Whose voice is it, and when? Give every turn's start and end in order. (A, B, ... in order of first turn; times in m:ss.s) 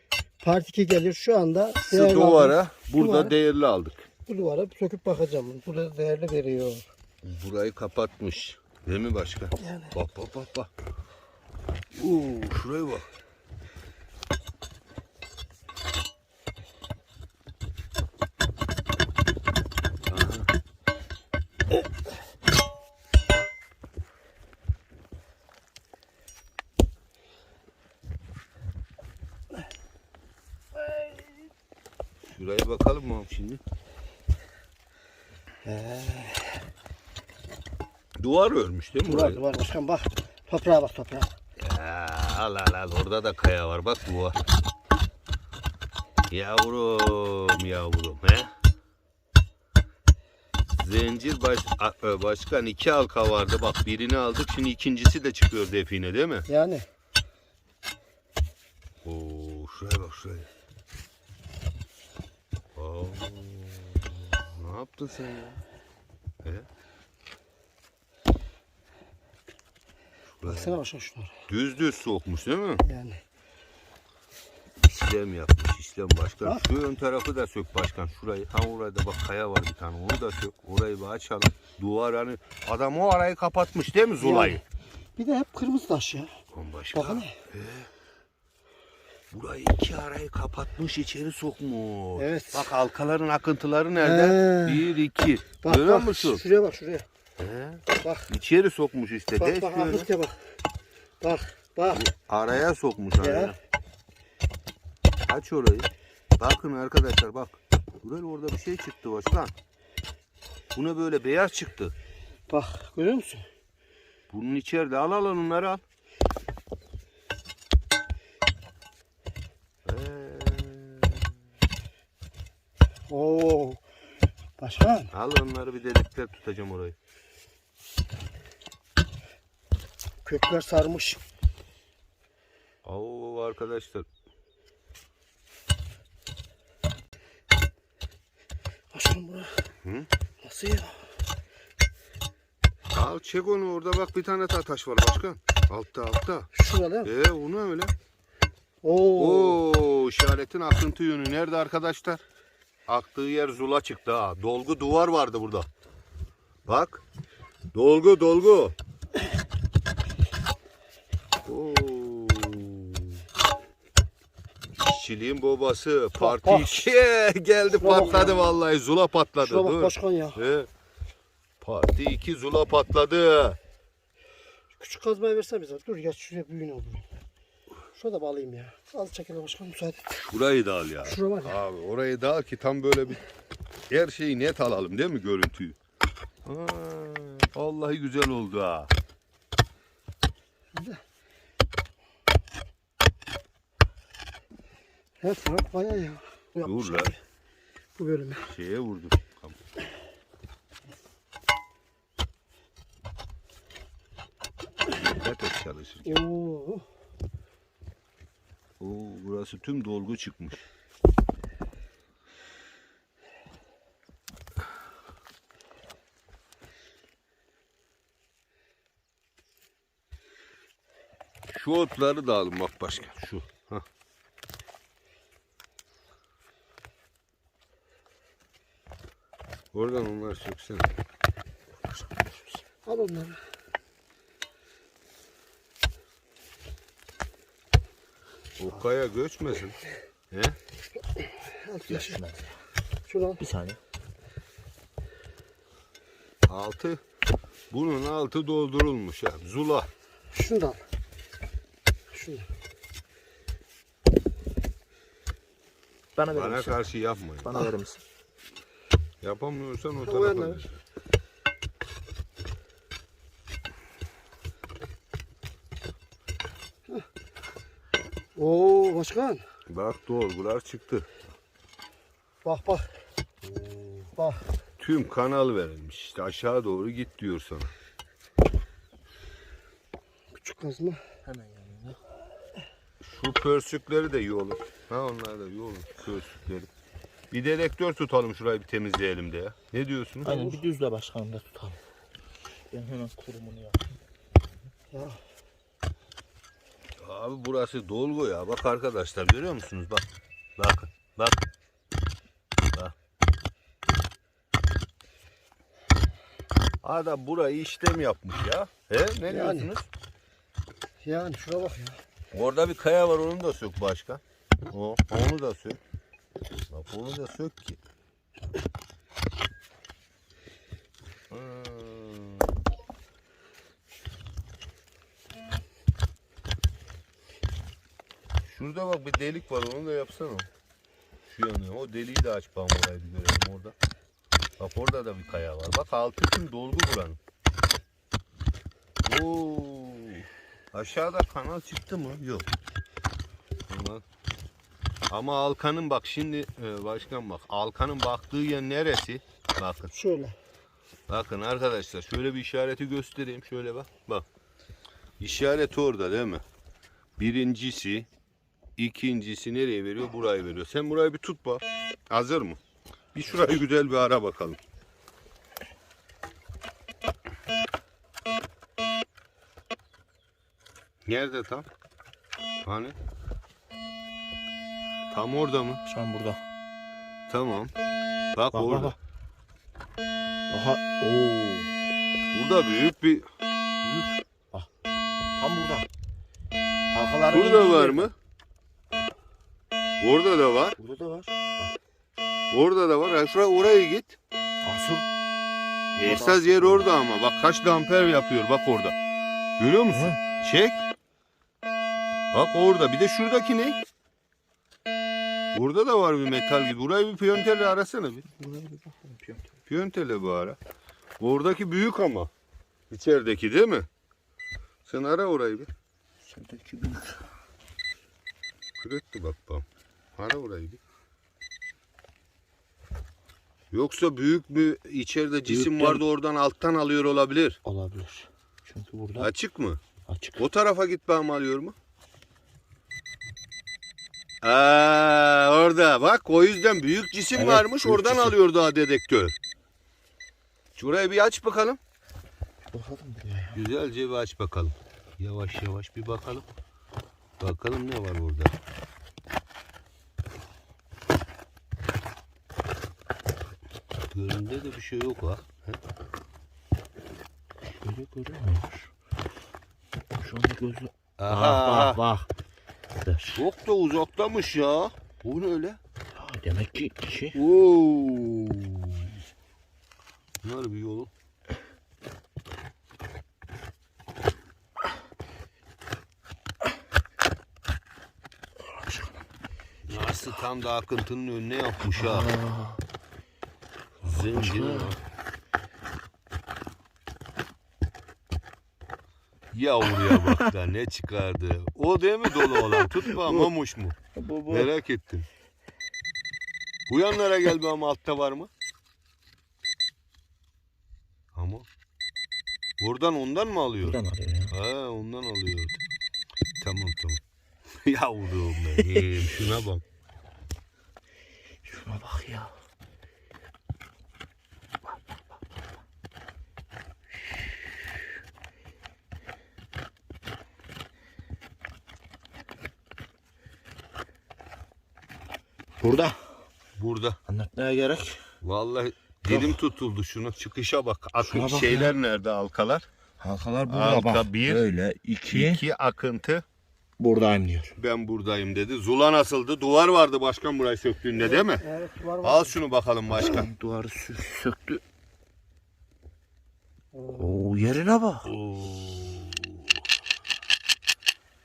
0:00.4-0:03.3 A
0:01.9-0:04.1 B
0:04.3-0:06.9 A
0:07.2-0:10.7 B
0:12.0-0:13.1 B
0:20.1-0:20.5 B
0:32.3-0:33.6 B
0:35.6-0:36.6 A
0:38.2-0:39.4 B
0:39.0-0:41.3 A
0:41.6-0:44.4 B
0:46.3-0:48.5 B
0:50.7-0:56.5 B
0:56.5-0:56.8 A
0:59.0-1:00.5 B
1:02.7-1:05.6 B
1:10.4-1:10.8 B
1:10.5-1:11.3 A
1:11.5-1:12.8 B
1:12.8-1:13.2 A
1:14.8-1:24.6 B
1:24.2-1:24.6 A
1:25.2-1:26.3 A
1:26.5-1:27.9 B
1:26.9-1:27.3 A
1:29.3-1:36.4 B
1:32.2-1:32.7 A
1:34.0-1:34.9 A
1:35.6-1:37.0 A
1:37.4-1:40.1 B
1:39.4-1:40.4 A
1:41.2-1:42.0 A
1:41.8-1:43.6 B
1:43.2-1:43.5 A
1:45.3-1:49.5 B
1:50.7-1:51.9 B
1:52.5-1:53.5 A
1:54.3-1:55.8 B
1:59.8-2:01.2 B
2:03.1-2:03.8 A
2:04.6-2:05.1 A
2:05.1-2:07.0 B
2:10.2-2:11.2 A
2:12.8-2:14.0 B
2:18.9-2:19.5 A
2:19.8-2:20.1 B
2:20.4-2:21.0 A
2:22.9-2:26.5 B
2:26.5-2:27.1 A
2:27.0-2:27.9 B
2:28.8-2:29.6 A
2:29.2-2:32.2 B
2:32.9-2:35.7 B
2:36.6-2:37.0 B
2:37.7-2:38.7 B
2:41.4-2:43.2 B
2:44.8-2:50.7 B
2:46.2-2:46.8 A
2:47.7-2:48.5 A
2:49.4-2:50.4 A
2:51.6-2:53.6 B
2:54.8-2:57.0 A
2:57.9-3:00.1 A
3:00.1-3:03.2 B
3:01.0-3:01.6 A
3:03.9-3:05.8 B
3:06.4-3:08.9 B
3:10.7-3:11.0 A
3:15.2-3:17.2 A
3:16.6-3:17.1 B
3:18.0-3:18.4 A
3:18.4-3:19.6 B
3:24.9-3:26.2 B
3:26.0-3:26.8 A
3:28.8-3:30.6 B
3:41.5-3:43.8 B
3:49.7-3:50.9 B
3:52.0-3:52.4 C
3:52.8-3:53.4 A
3:58.6-3:59.8 B
4:00.3-4:00.6 B
4:01.3-4:02.2 A
4:01.9-4:02.5 C
4:03.1-4:03.4 A
4:03.4-4:03.8 C
4:06.5-4:07.0 B
4:07.7-4:09.9 B
4:10.3-4:10.8 A
4:12.1-4:12.5 A
4:16.2-4:16.8 C
4:16.3-4:17.7 B
4:17.4-4:18.0 C
4:19.2-4:20.8 B
4:20.0-4:20.6 A
4:28.4-4:29.4 A
4:29.7-4:31.0 B
4:32.4-4:32.9 A
4:33.4-4:34.1 B
4:34.2-4:34.4 A
4:34.8-4:37.7 B
4:40.4-4:41.0 A
4:41.2-4:42.0 C
4:43.0-4:46.7 B
4:47.3-4:50.4 B
4:50.2-4:51.8 C
4:50.3-4:50.6 A
4:52.7-4:54.0 C
4:54.9-4:55.2 A
4:57.0-5:00.0 B
5:00.6-5:01.4 B
5:06.8-5:09.9 B
5:09.3-5:09.7 A
5:11.0-5:12.0 A
5:12.3-5:15.8 B
5:16.7-5:17.8 B
5:21.3-5:22.4 B
5:28.5-5:30.5 B
5:31.3-5:33.7 B
5:34.6-5:37.2 B
5:39.0-5:42.5 B
5:43.7-5:44.0 B
5:45.1-5:49.9 B
5:49.9-5:50.4 A
5:51.1-5:54.2 B
5:55.2-5:56.4 B
5:57.2-5:58.1 B
5:58.8-6:02.6 B
6:03.1-6:04.6 B
6:11.0-6:11.7 B
6:12.6-6:12.9 B
6:15.1-6:15.8 B
6:15.8-6:16.4 C
6:17.3-6:17.7 B
6:18.3-6:18.9 B
6:18.5-6:19.0 C
6:20.5-6:21.7 C
6:22.3-6:23.2 B
6:23.8-6:24.7 C
6:25.4-6:25.9 C
6:26.9-6:28.1 C
6:27.3-6:28.1 B
6:30.0-6:30.8 B
6:30.8-6:31.7 C
6:32.5-6:34.2 B
6:34.6-6:35.0 C
6:36.0-6:38.9 B
6:36.0-6:36.9 C
6:39.6-6:40.8 B
6:39.9-6:40.2 C
6:42.3-6:43.8 B
6:45.5-6:48.2 B
6:48.3-6:49.5 C
6:49.7-6:50.6 B
6:51.2-6:52.3 B
6:52.9-6:53.8 B
6:54.8-6:55.7 B
6:56.3-6:57.2 C
6:58.8-6:59.6 B
7:00.2-7:00.8 B
7:03.7-7:07.6 B
7:05.4-7:06.0 C
7:07.6-7:09.3 C
7:09.2-7:09.8 B
7:10.1-7:10.4 C
7:10.4-7:11.7 B
7:14.4-7:19.4 B
7:17.3-7:18.4 C
7:20.8-7:21.8 B
7:22.7-7:23.6 C
7:23.5-7:26.4 B
7:27.4-7:28.5 B
7:34.1-7:35.8 B
7:37.7-7:38.9 C
7:40.2-7:42.3 C
7:41.2-7:42.0 B
7:43.0-7:43.4 C
7:43.3-7:45.8 B
7:46.2-7:47.4 C
7:47.3-7:49.1 B
7:50.4-7:51.1 B
7:58.7-7:59.2 C
7:59.8-8:02.3 B
8:01.9-8:02.8 C
8:04.0-8:05.0 C
8:04.0-8:05.0 B
8:09.5-8:15.3 B
8:10.1-8:10.4 C
8:12.7-8:13.5 C
8:14.1-8:14.7 C
8:16.9-8:18.5 B
8:21.3-8:21.6 B
8:22.8-8:24.0 B
8:23.8-8:24.5 C
8:24.5-8:25.8 B
8:26.6-8:27.2 B
8:27.8-8:29.8 B
8:31.6-8:32.5 C
8:45.8-8:46.2 C
8:46.8-8:47.2 B
8:47.3-8:48.2 C
8:48.4-8:52.9 B
8:49.3-8:49.6 C
8:51.2-8:51.9 C
8:53.2-8:55.6 C
8:53.6-8:54.7 B
8:55.3-8:56.4 B
8:57.0-8:57.7 C
8:57.8-9:01.6 B
9:01.2-9:02.5 A
9:02.2-9:03.5 B
9:03.2-9:04.8 C
9:06.9-9:07.4 A
9:07.2-9:08.3 C
9:08.2-9:09.7 B